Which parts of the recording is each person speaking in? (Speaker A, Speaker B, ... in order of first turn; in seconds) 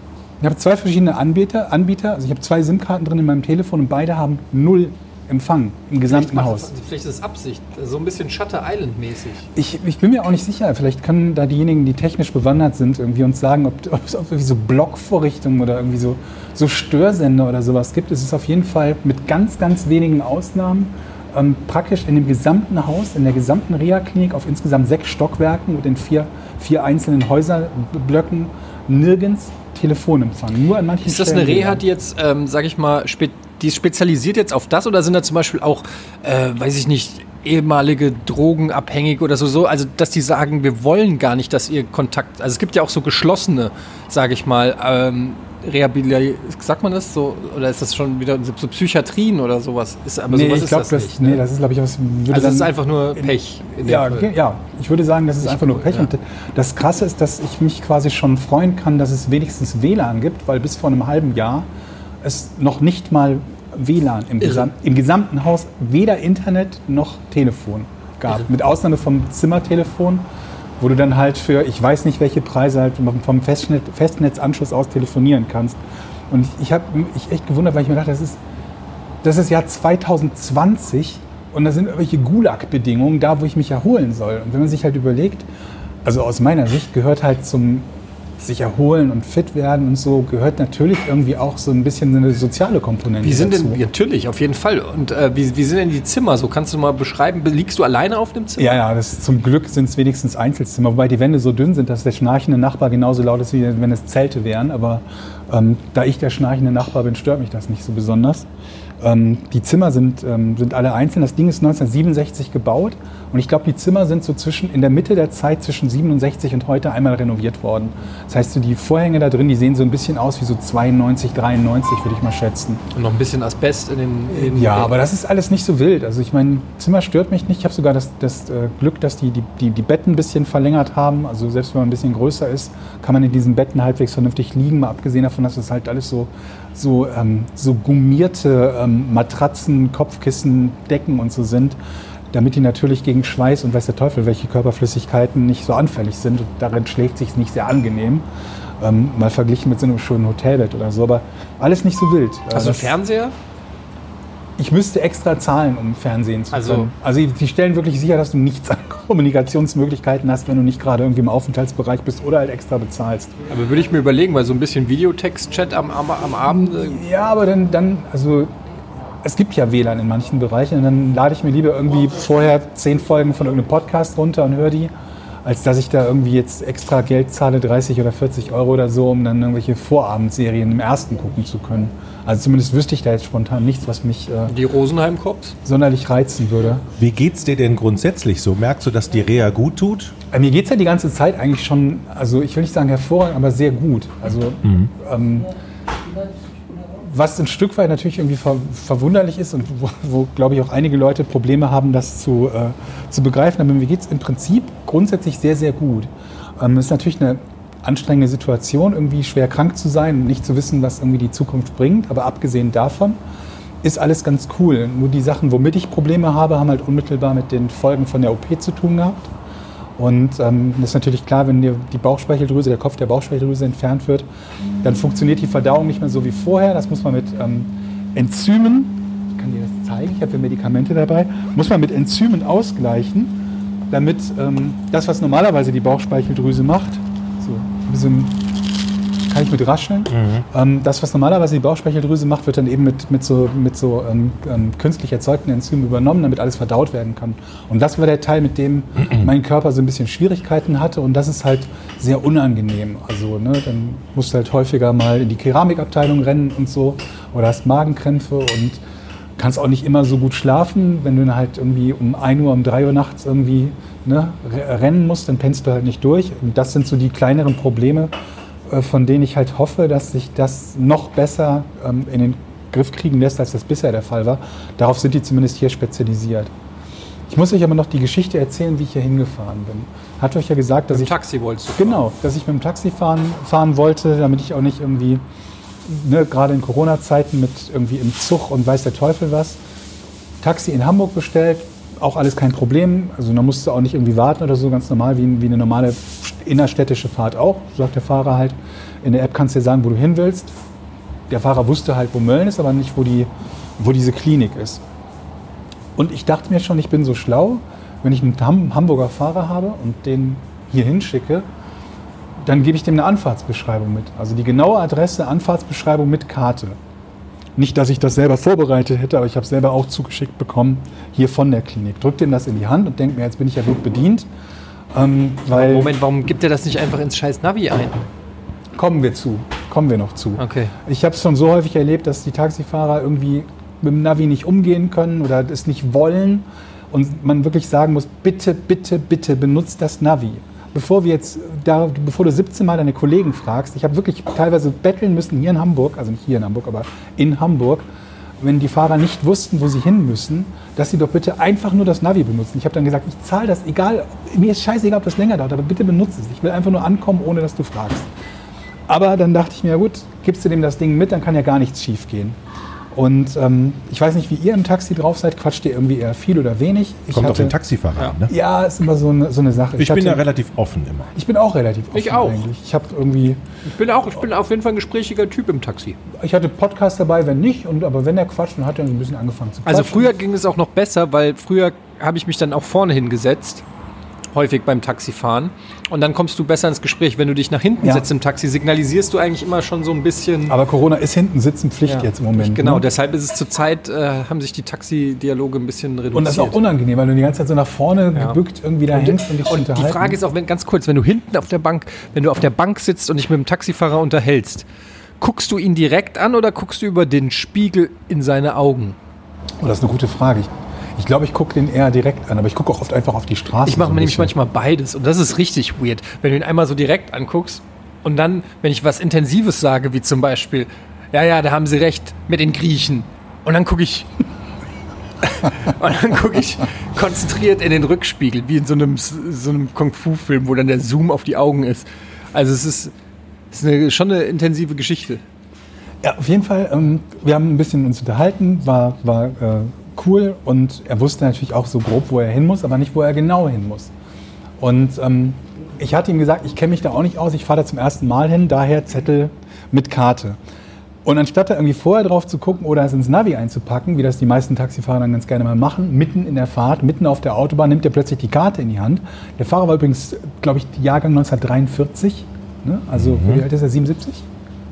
Speaker A: 0.4-6.8, 9.6-31.9, 50.3-61.7, 62.2-70.3, 70.8-78.4, 79.2-85.5, 86.0-87.9, 88.4-93.8, 98.6-108.5, 109.0-122.8, 124.3-141.8, 142.3-148.3, 148.8-153.0, 154.6-163.3, 166.5-168.5, 169.2-174.9, 175.4-184.6, 185.7-186.9, 190.3-195.5, 196.9-213.2, 213.8-219.3, 220.0-224.3, 224.8-238.5, 239.2-258.8, 259.4-268.1, 268.7-276.5, 277.3-281.2, 281.8-285.2, 285.8-289.6, 290.4-300.5, 301.3-304.8, 306.0-311.5, 312.4-316.8, 317.6-324.3, 324.9-325.9, 328.8-347.9, 348.4-358.1, 358.9-362.4, 362.9-367.6, 368.3-370.2, 371.1-373.4, 376.1-380.2, 387.8-388.1, 390.5-392.9, 396.1-400.2, 409.6-414.3, 436.0-443.9, 444.6-450.4, 451.1-464.2
Speaker B: 6.1-9.5, 31.0-51.4, 52.3-54.3, 55.4-56.1, 64.4-64.7, 93.2-98.8, 122.9-125.0, 152.5-153.3, 156.5-156.9, 163.5-167.0, 184.5-185.6, 280.9-282.1, 325.5-328.0, 330.4-330.7, 371.9-372.4, 373.7-376.0, 379.7-383.6, 384.3-390.6, 391.9-396.6, 398.9-404.7, 405.2-409.0, 413.7-424.1, 425.2-432.9, 433.5-435.2
Speaker C: 187.0-190.2, 194.6-194.9, 240.1-240.4, 367.1-368.3, 369.8-371.1, 463.0-463.4